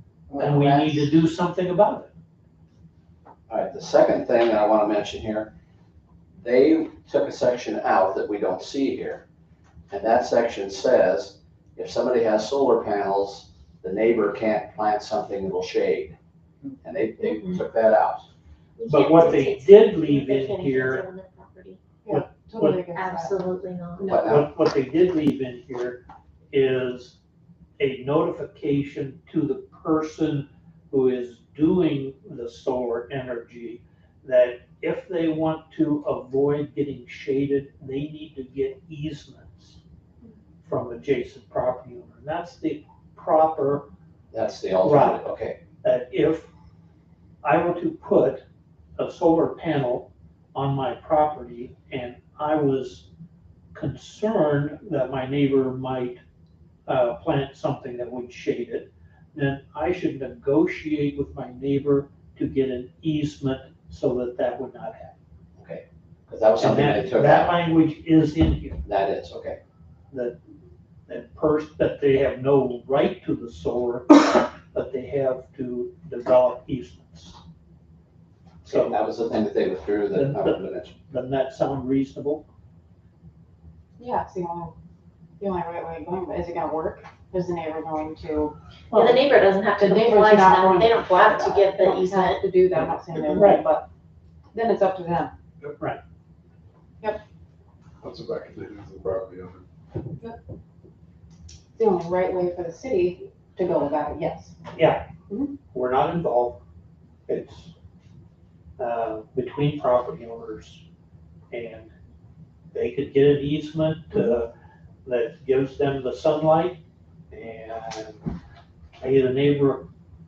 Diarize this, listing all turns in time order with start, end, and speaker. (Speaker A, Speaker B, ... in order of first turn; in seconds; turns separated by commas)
Speaker A: 0.4-0.8, Speaker B: 0.4-2.1, Speaker C: 3.5-5.5, Speaker C: 6.4-9.2, Speaker C: 9.9-16.1, Speaker C: 16.8-18.3, Speaker D: 18.8-21.8, Speaker B: 18.9-21.1, Speaker E: 22.0-23.4, Speaker B: 22.1-22.8, Speaker D: 22.9-24.2, Speaker C: 24.0-24.5, Speaker B: 24.0-26.0, Speaker B: 26.5-27.2, Speaker B: 27.8-39.8, Speaker B: 40.6-43.9, Speaker C: 44.3-45.6, Speaker B: 44.8-45.3, Speaker B: 45.8-46.5, Speaker B: 47.4-48.4, Speaker B: 49.0-53.1, Speaker B: 53.7-56.2, Speaker B: 56.9-65.2, Speaker C: 65.6-67.6, Speaker B: 66.6-68.8, Speaker C: 68.9-69.6, Speaker B: 70.1-70.4, Speaker B: 71.1-77.4, Speaker B: 78.6-79.0, Speaker C: 78.7-80.9, Speaker B: 80.1-82.5, Speaker E: 84.0-84.7, Speaker E: 85.4-88.5, Speaker D: 88.9-92.5, Speaker E: 89.8-93.9, Speaker B: 93.3-93.7, Speaker E: 94.5-95.3, Speaker A: 98.0-99.7, Speaker E: 101.8-104.6, Speaker B: 104.7-105.0, Speaker E: 105.3-105.5, Speaker B: 105.7-106.6, Speaker B: 107.3-107.7, Speaker B: 108.8-110.8, Speaker B: 111.5-111.9, Speaker B: 112.7-114.5, Speaker B: 115.0-116.8, Speaker B: 117.3-118.2, Speaker B: 119.0-119.9